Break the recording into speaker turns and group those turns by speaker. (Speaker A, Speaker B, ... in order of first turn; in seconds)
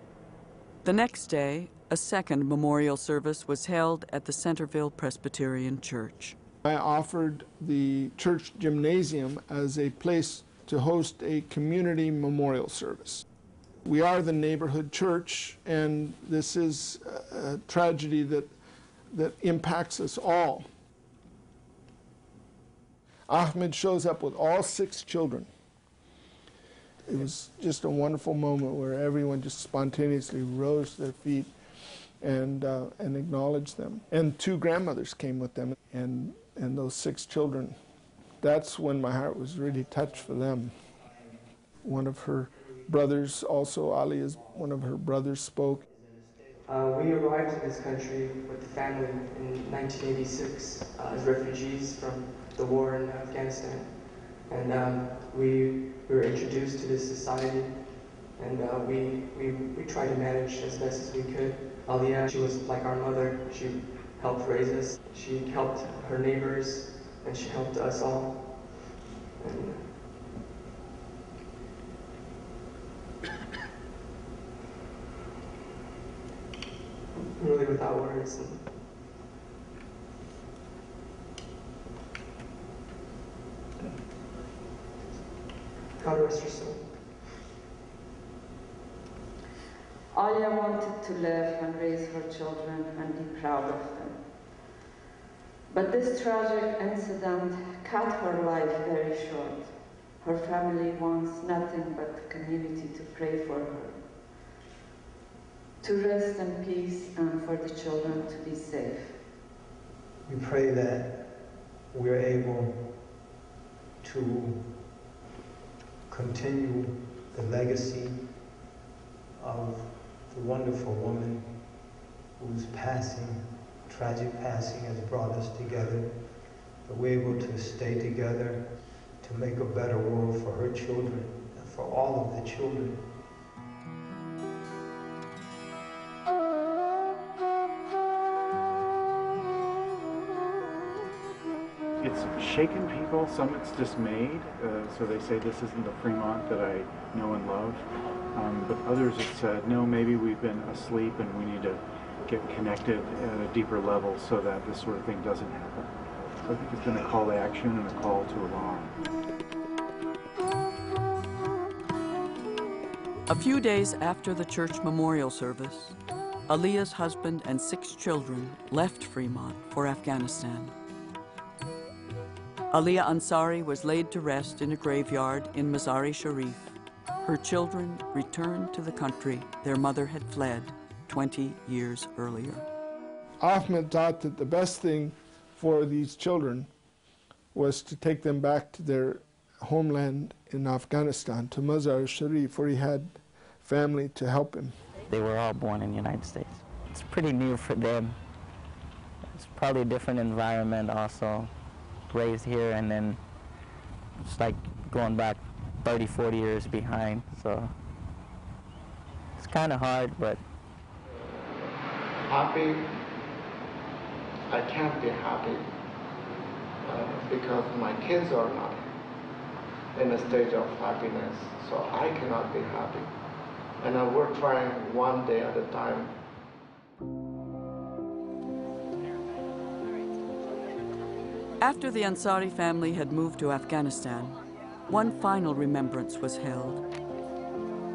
Speaker A: 0.8-6.3, 163.3-170.7, 172.7-182.6, 231.6-234.4, 234.9-236.8
Speaker B: 6.7-13.2, 13.8-18.5, 19.1-20.6, 23.3-25.5, 27.1-31.5, 32.2-37.8, 38.4-40.7, 41.8-45.9, 183.4-186.7, 187.5-194.7
Speaker C: 46.6-69.9, 77.1-78.7, 86.0-87.0
Speaker D: 90.1-94.2, 95.7-104.2, 105.8-109.2
Speaker E: 110.2-113.2, 114.0-114.9, 116.1-118.6, 119.4-133.2
Speaker F: 142.0-147.8, 148.3-155.9, 156.4-158.9
Speaker G: 195.1-198.2, 199.3-201.5, 202.1-203.2, 204.2-207.7, 209.4-210.4
Speaker H: 212.3-212.9, 214.5-215.7, 216.8-218.9, 219.9-223.1, 223.8-226.1